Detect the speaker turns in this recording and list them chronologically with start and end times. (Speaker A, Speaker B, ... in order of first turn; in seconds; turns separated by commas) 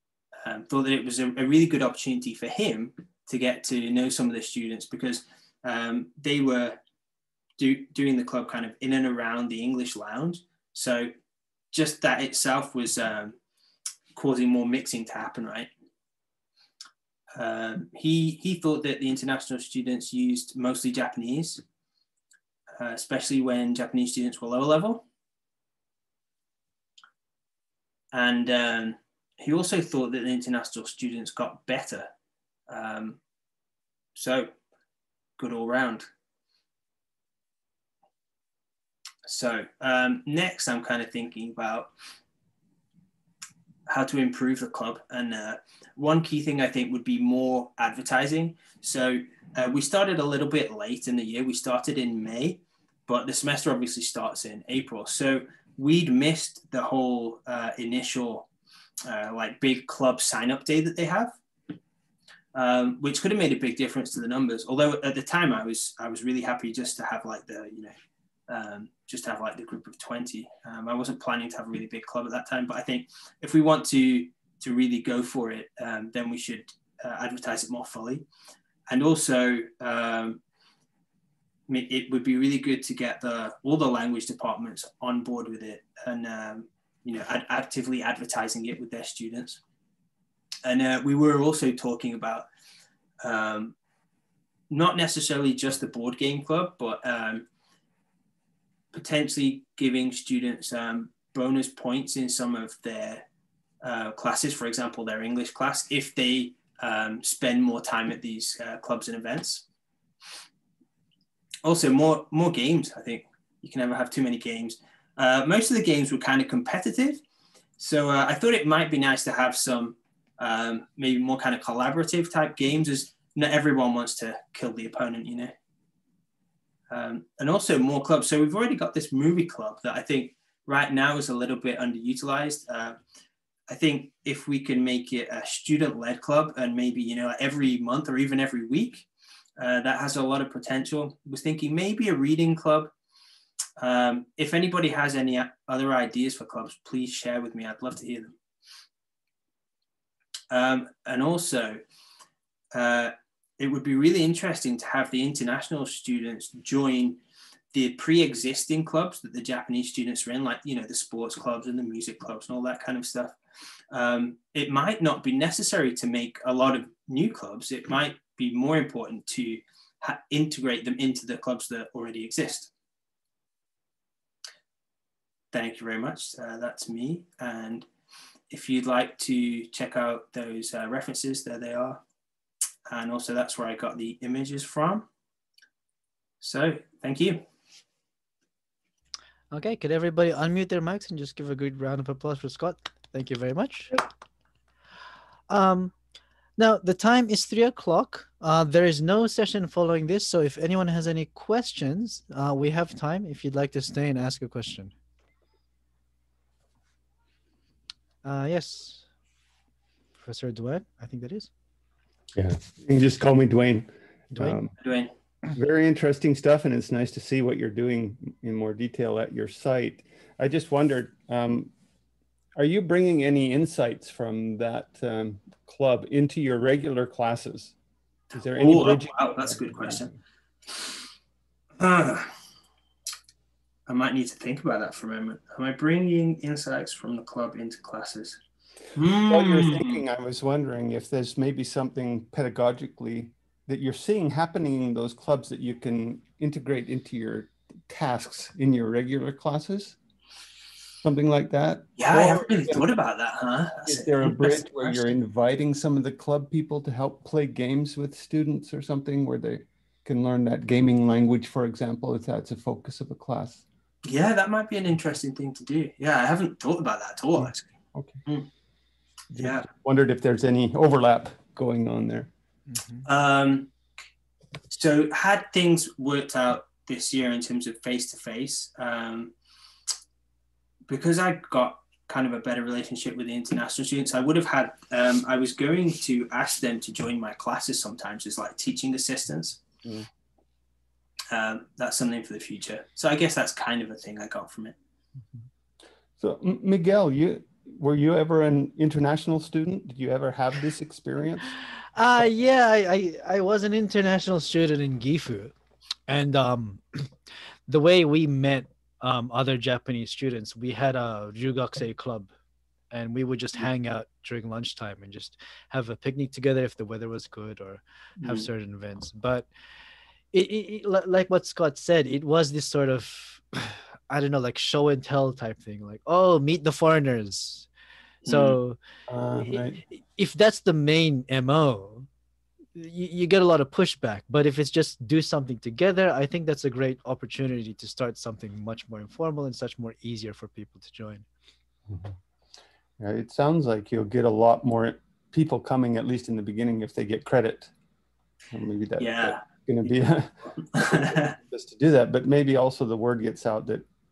Speaker A: 0.4-6.8, Speaker A: 7.6-11.1, Speaker A: 11.7-13.4, Speaker A: 14.2-15.7, Speaker A: 17.4-21.6, Speaker A: 22.8-25.1, Speaker A: 28.1-32.1, Speaker A: 32.7-33.2, Speaker A: 34.1-34.5, Speaker A: 35.4-36.1, Speaker A: 39.2-41.9, Speaker A: 43.9-58.5, Speaker A: 59.1-61.4, Speaker A: 62.5-67.9, Speaker A: 68.5-78.3, Speaker A: 78.9-80.4, Speaker A: 81.7-89.6, Speaker A: 90.6-92.5, Speaker A: 93.2-93.8, Speaker A: 94.7-97.5, Speaker A: 98.9-103.3, Speaker A: 103.8-109.7, Speaker A: 111.7-117.2, Speaker A: 117.8-125.5, Speaker A: 126.9-133.0, Speaker A: 133.7-142.9, Speaker A: 143.8-148.3, Speaker A: 150.5-151.8, Speaker A: 152.7-157.2, Speaker A: 157.7-163.4, Speaker A: 163.9-172.7, Speaker A: 175.5-177.9, Speaker A: 178.5-182.0, Speaker A: 182.9-185.1, Speaker A: 186.4-187.4, Speaker B: 189.5-194.0, Speaker B: 195.5-195.9, Speaker B: 196.6-204.9, Speaker B: 208.2-209.1, Speaker B: 210.2-211.5, Speaker C: 212.3-214.7, Speaker A: 214.8-215.1, Speaker C: 215.5-221.7, Speaker C: 222.6-227.8, Speaker A: 228.3-230.1, Speaker C: 228.3-230.1, Speaker A: 231.8-232.3, Speaker A: 233.9-238.4, Speaker A: 238.9-240.0, Speaker C: 239.3-250.0, Speaker C: 251.0-252.9, Speaker A: 252.0-255.1, Speaker C: 253.8-263.6, Speaker A: 264.1-267.7, Speaker C: 267.4-268.2, Speaker C: 269.3-272.3, Speaker A: 269.4-269.7, Speaker B: 272.7-273.1, Speaker A: 273.1-273.7, Speaker A: 274.7-279.3, Speaker A: 280.9-289.6, Speaker A: 291.3-294.8, Speaker C: 296.2-301.6, Speaker B: 302.0-305.6, Speaker B: 306.1-307.1, Speaker B: 307.7-312.3, Speaker B: 312.9-319.5, Speaker A: 318.2-318.5, Speaker B: 320.3-327.7, Speaker A: 328.2-328.6, Speaker B: 328.3-328.8, Speaker C: 329.1-329.8, Speaker B: 329.4-332.1, Speaker B: 332.8-341.3, Speaker C: 341.9-342.1, Speaker C: 343.0-347.7, Speaker C: 348.5-353.9, Speaker A: 349.0-351.4